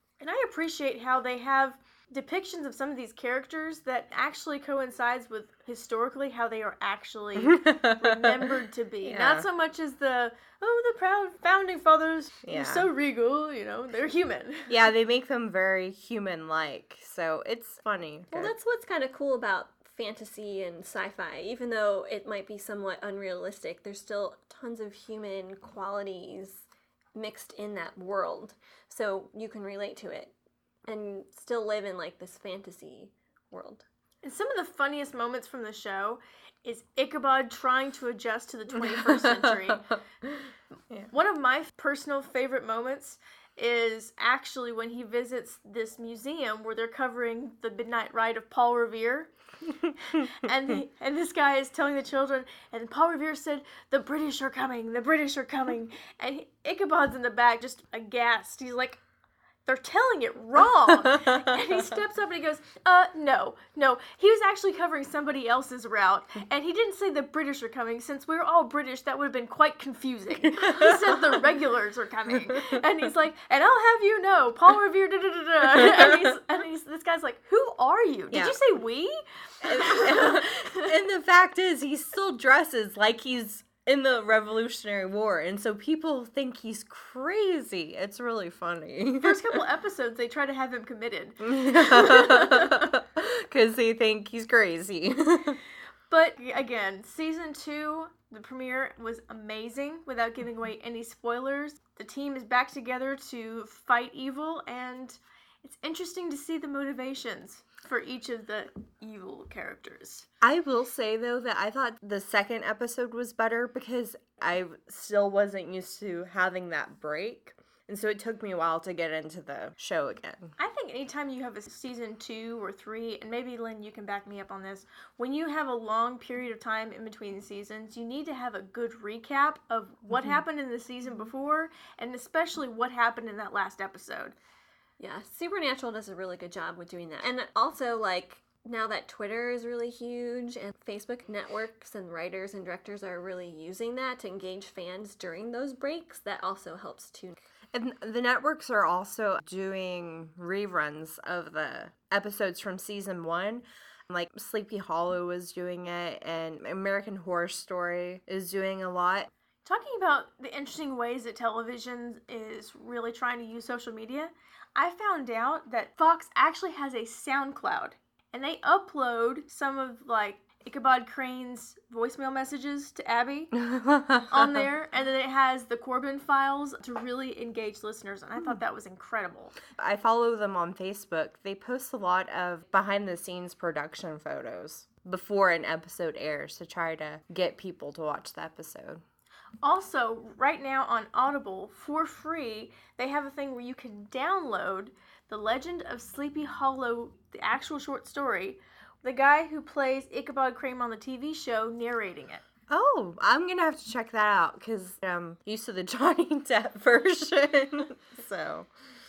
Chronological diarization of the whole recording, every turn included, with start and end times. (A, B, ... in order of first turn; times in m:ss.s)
0:00.2-0:14.8 A
0:07.4-0:08.5 B
0:09.0-0:09.5 B
0:12.4-0:12.9 B
0:14.7-0:18.5 B
0:18.3-0:30.3 C
0:30.9-0:33.8 C
0:34.2-0:39.9 A
0:38.7-0:41.1 B
0:41.1-0:49.3 A
0:50.1-0:59.0 A
0:59.6-1:20.9 A
1:10.6-1:11.4 B
1:12.5-1:12.8 B
1:16.0-1:16.3 B
1:18.3-1:18.6 B
1:19.6-1:29.6 B
1:29.2-1:32.9 A
1:31.4-1:35.6 B
1:36.1-1:50.3 A
1:50.4-2:00.5 B
2:00.6-2:14.4 A
2:15.0-2:27.4 C
2:27.7-2:39.3 B
2:39.6-2:53.5 A
2:53.5-2:54.6 B
2:54.3-2:59.6 A
2:59.8-3:09.0 B
3:09.6-3:22.4 A
3:22.7-3:28.7 B